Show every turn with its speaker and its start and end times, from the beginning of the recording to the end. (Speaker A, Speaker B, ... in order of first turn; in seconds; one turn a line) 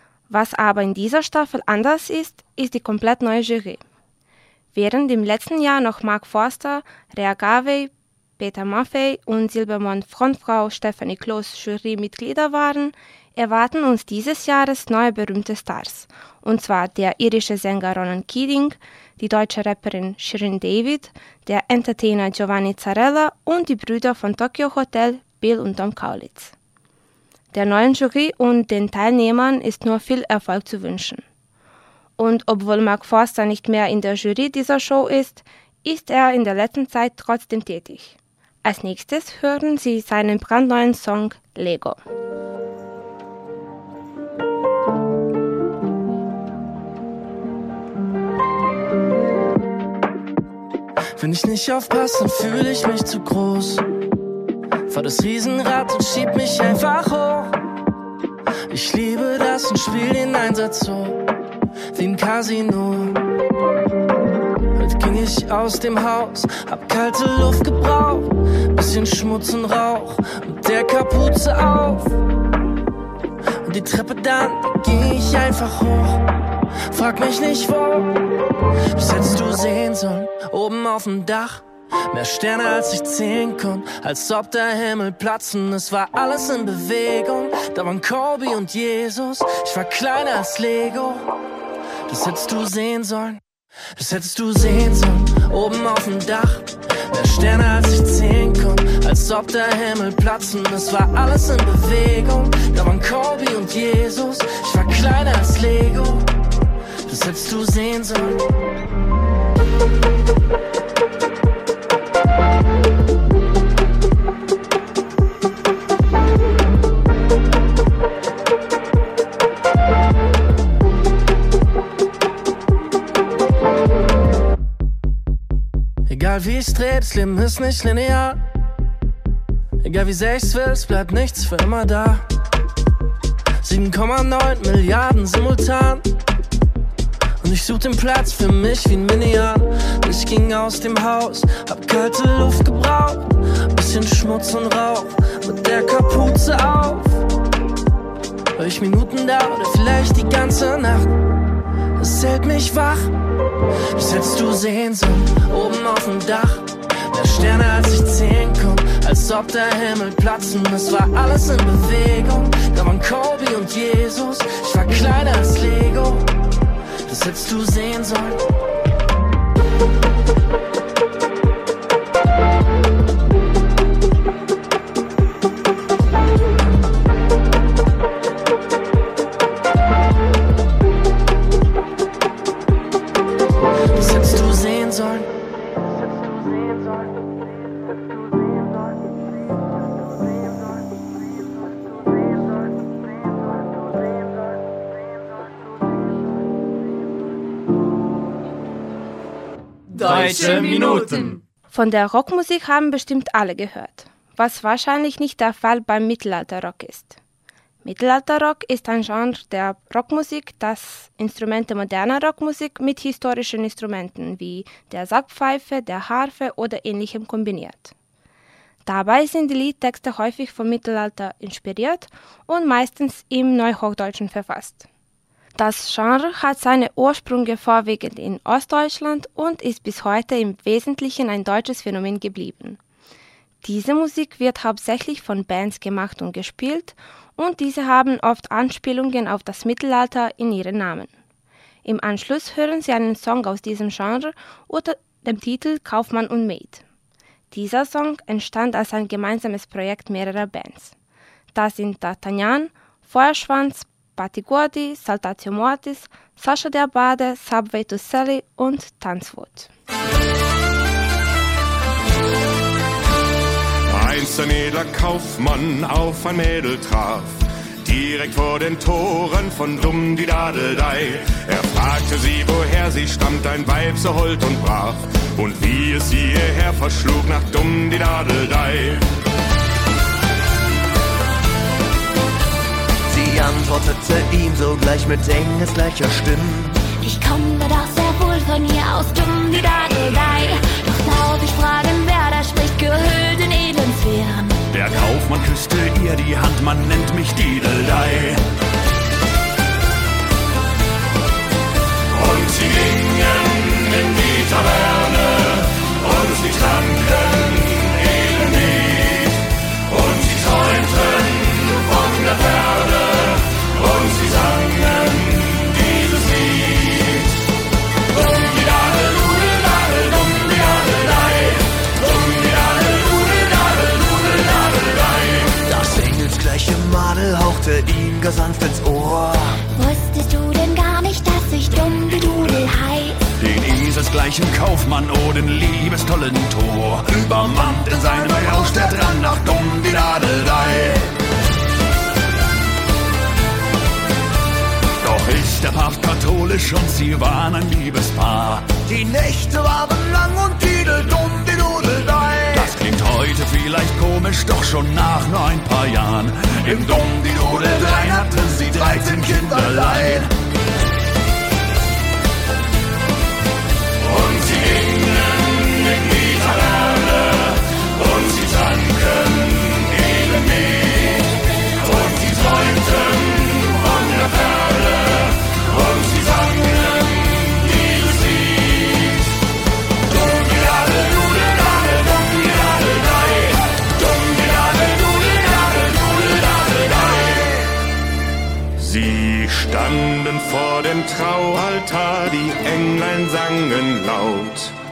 Speaker A: 0.3-3.8
Speaker A: 4.7-26.5
Speaker A: 27.5-31.2
Speaker A: 32.2-42.0
Speaker B: 51.2-53.9
Speaker B: 54.9-57.6
Speaker B: 58.7-61.2
Speaker B: 61.9-63.2
Speaker B: 64.8-72.2
Speaker B: 73.7-76.2
Speaker B: 76.9-78.1
Speaker B: 78.9-91.3
Speaker B: 92.1-93.4
Speaker B: 94.0-106.3
Speaker B: 107.1-108.4
Speaker B: 126.1-128.4
Speaker B: 129.8-132.2
Speaker B: 133.6-136.0
Speaker B: 137.4-147.2
Speaker B: 148.6-151.1
Speaker B: 152.0-153.1
Speaker B: 153.9-166.3
Speaker B: 167.1-168.4
Speaker B: 183.9-185.3
Speaker C: 200.1-201.2
Speaker A: 201.7-207.2
Speaker A: 207.8-217.9
Speaker A: 218.8-224.9
Speaker A: 225.6-232.8
Speaker A: 233.6-241.1
Speaker A: 241.8-246.8
Speaker A: 247.5-250.9
Speaker A: 251.5-259.7
Speaker D: 263.9-279.1
Speaker C: 283.1-286.8
Speaker E: 287.0-294.6
Speaker F: 294.7-298.4
Speaker F: 306.1-308.7
Speaker F: 310.2-310.8
Speaker F: 314.1-315.0
Speaker F: 318.4-319.1
Speaker C: 325.6-329.6
Speaker E: 329.7-333.2
Speaker F: 333.4-341.1
Speaker F: 345.0-348.8
Speaker C: 348.8-352.7
Speaker F: 352.5-360.3
Speaker C: 358.8-360.0
Speaker F: 384.1-385.0
Speaker D: 388.8-394.7